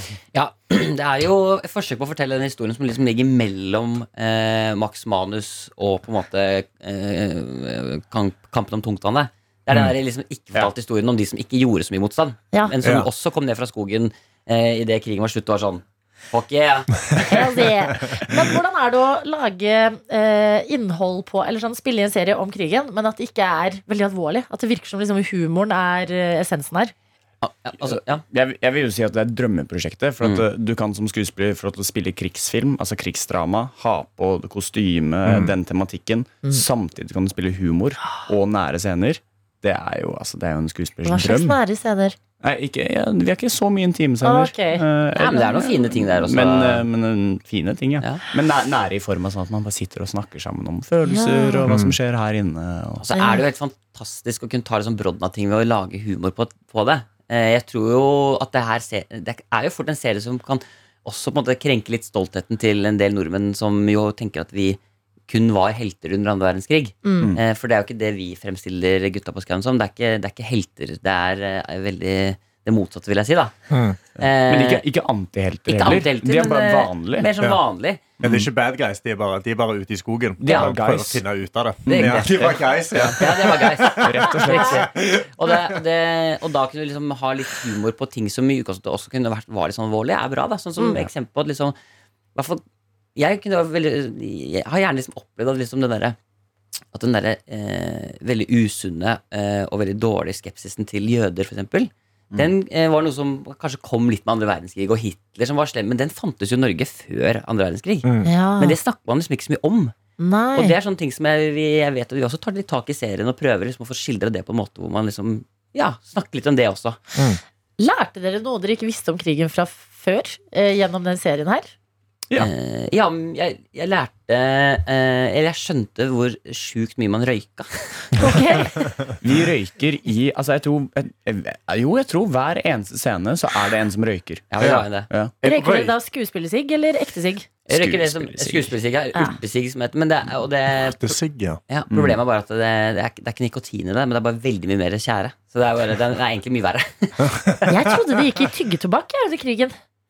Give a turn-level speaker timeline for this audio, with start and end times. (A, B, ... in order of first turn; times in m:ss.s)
0:00.3-0:17.5 A
0:12.8-0:13.1 B
0:17.3-0:26.9 C
0:27.4-0:28.2 A
0:27.8-0:41.6 D
0:30.2-0:30.5 A
0:35.3-0:35.5 B
0:41.0-0:42.2 C
0:42.4-0:53.1 D
0:44.2-0:45.7 C
0:45.2-0:46.8 A
0:51.1-0:51.7 C
0:51.7-0:52.0 B
0:53.0-1:13.5 A
0:53.1-0:53.4 C
1:07.0-1:07.3 C
1:13.7-1:14.0 B
1:14.2-1:14.8 A
1:14.2-1:17.3 D
1:15.7-1:18.2 A
1:18.2-1:18.5 D
1:18.2-1:24.1 B
1:20.4-1:21.2 D
1:21.9-1:25.0 D
1:21.9-1:31.8 A
1:32.4-1:32.6 A
1:33.2-1:36.2 A
1:36.9-1:49.9 A
1:48.0-1:48.3 B
1:48.2-1:48.8 C
1:50.2-1:50.8 C
1:50.5-1:57.0 A
1:57.8-2:01.7 C
2:02.4-2:08.2 A
2:08.2-2:08.9 C
2:09.2-2:14.5 D
2:14.5-2:15.1 A
2:14.6-2:14.9 B
2:15.1-2:15.4 D
2:15.4-2:16.0 B
2:15.4-2:17.5 C
2:17.7-2:21.1 A
2:17.7-2:18.8 D
2:20.9-2:21.6 B
2:21.7-2:27.5 A
2:21.9-2:22.2 D
2:27.7-2:29.8 C